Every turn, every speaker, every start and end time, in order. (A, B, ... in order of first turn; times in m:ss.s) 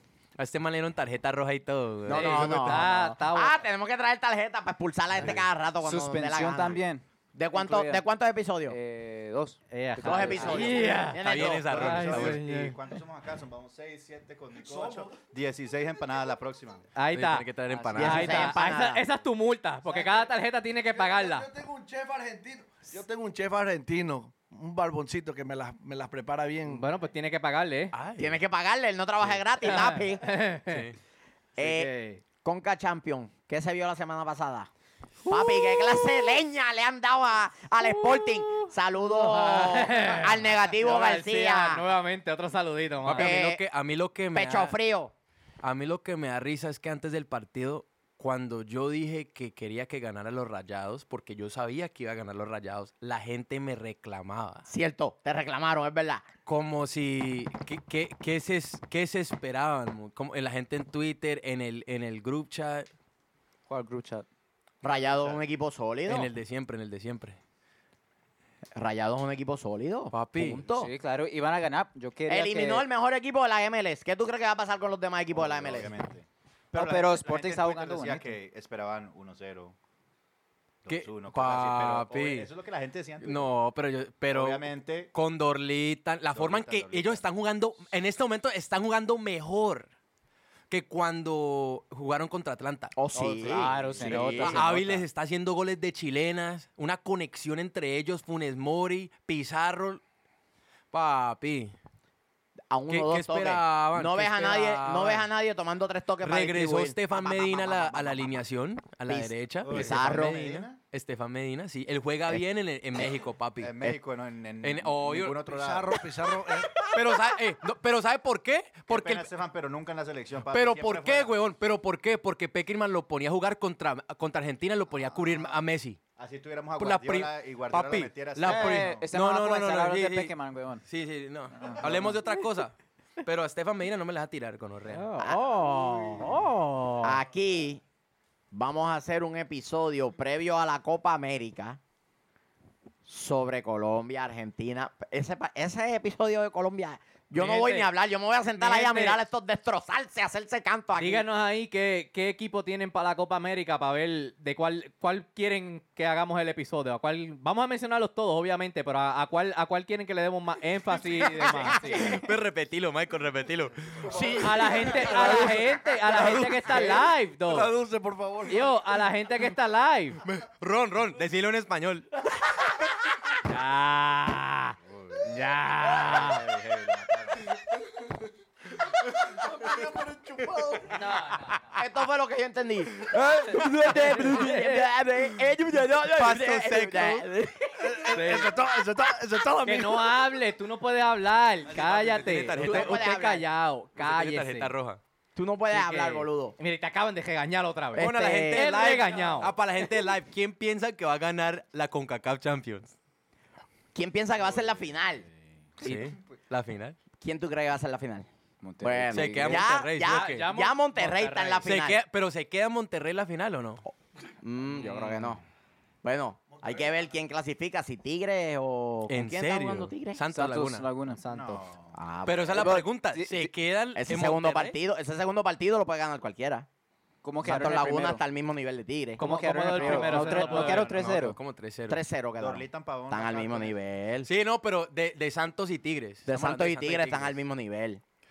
0:00.4-0:03.0 A
0:02.1-0:06.8 B
0:02.1-0:03.6 C
0:05.2-0:08.0 D
0:07.4-0:08.8 B
0:08.7-0:11.1 D
0:09.7-0:12.8 C
0:10.0-0:11.9 B
0:10.8-0:16.9 E
0:11.1-0:12.4 A
0:14.6-0:15.2 F
0:17.0-0:21.5 C
0:17.1-0:18.6 A
0:17.7-0:18.5 D
0:18.0-0:19.1 B
0:19.8-0:26.9 F
0:26.7-0:28.0 C
0:27.9-0:28.4 A
0:28.2-0:30.2 B
0:29.6-0:30.9 C
0:30.7-0:31.0 A
0:31.6-0:31.9 B
0:31.6-0:32.2 C
0:32.4-0:34.7 B
0:35.3-0:36.3 C
0:35.3-0:41.8 B
0:37.8-0:43.4 C
0:43.0-0:44.8 A
0:43.2-0:43.6 B
0:44.3-0:45.1 B
0:45.6-0:54.7 A
0:54.7-0:56.3 B
0:56.5-1:02.9 A
1:03.7-1:04.3 D
1:04.8-1:06.3 B
1:04.8-1:05.4 E
1:06.1-1:07.4 A
1:08.8-1:10.9 B
1:10.1-1:10.6 A
1:10.7-1:12.9 D
1:12.3-1:15.9 B
1:15.3-1:19.8 E
1:16.7-1:18.4 D
1:20.8-1:23.7 E
1:20.9-1:22.5 A
1:23.2-1:29.9 A
1:24.2-1:25.2 E
1:26.3-1:27.3 E
1:30.7-1:33.0 A
1:32.9-1:34.7 B
1:33.2-1:35.1 D
1:33.5-1:40.0 A
1:33.8-1:34.2 E
1:40.9-1:41.7 A
1:42.7-1:48.4 B
1:42.9-1:45.3 A
1:46.2-1:53.8 A
1:49.1-1:50.4 B
1:49.6-1:50.8 E
1:53.6-1:56.0 E
1:54.6-1:55.5 A
1:55.5-1:56.7 F
1:56.9-1:59.3 A
1:58.9-2:01.4 E
2:00.5-2:06.0 A
2:05.0-2:05.6 E
2:06.2-2:09.1 E
2:06.8-2:15.1 A
2:08.4-2:10.8 D
2:11.6-2:12.2 D
2:11.8-2:12.1 E
2:14.9-2:17.2 C
2:17.0-2:17.8 B
2:18.5-2:21.8 B
2:23.1-2:31.2 B
2:27.3-2:27.9 C
2:28.6-2:29.2 C
2:31.0-2:42.2 C
2:41.2-2:44.5 A
2:44.1-2:48.9 F
2:44.3-2:47.7 C
2:48.5-2:50.2 C
2:50.2-2:52.1 A
2:53.4-2:56.4 C
2:54.9-2:55.3 E
2:55.9-2:57.4 E
2:59.2-3:01.1 F
3:00.9-3:01.7 C
3:01.7-3:08.5 B
3:03.0-3:04.5 F
3:03.8-3:04.9 C
3:05.9-3:07.3 A
3:07.8-3:10.2 F
3:09.6-3:14.7 C
3:11.8-3:13.2 A
3:12.6-3:13.4 B
3:14.0-3:15.0 A
3:15.4-3:16.6 B
3:15.7-3:19.5 C
3:18.0-3:18.7 B
3:18.0-3:23.0 A
3:23.9-3:25.3 B
3:24.4-3:25.8 E
3:25.8-3:27.0 A
3:27.2-3:28.3 B
3:28.6-3:29.7 D
3:28.8-3:32.0 B
3:29.1-3:30.5 A
3:30.1-3:31.7 C
3:31.6-3:33.8 A
3:33.9-3:35.4 B
3:34.7-3:35.4 C
3:36.0-3:40.2 B
3:39.1-3:40.9 A
3:40.3-3:41.2 D
3:41.2-3:41.7 C
3:41.3-3:42.0 E
3:41.9-3:42.9 B
3:42.2-3:44.8 A
3:43.1-3:43.5 D
3:44.0-3:46.7 B
3:47.2-3:48.2 D
3:47.4-3:50.2 B
3:49.2-3:51.0 C
3:49.2-3:51.4 D
3:49.8-3:51.4 E
3:50.6-3:52.0 A
3:51.9-3:54.3 B
3:52.4-3:53.8 E
3:54.2-3:57.4 A
3:56.2-3:58.0 B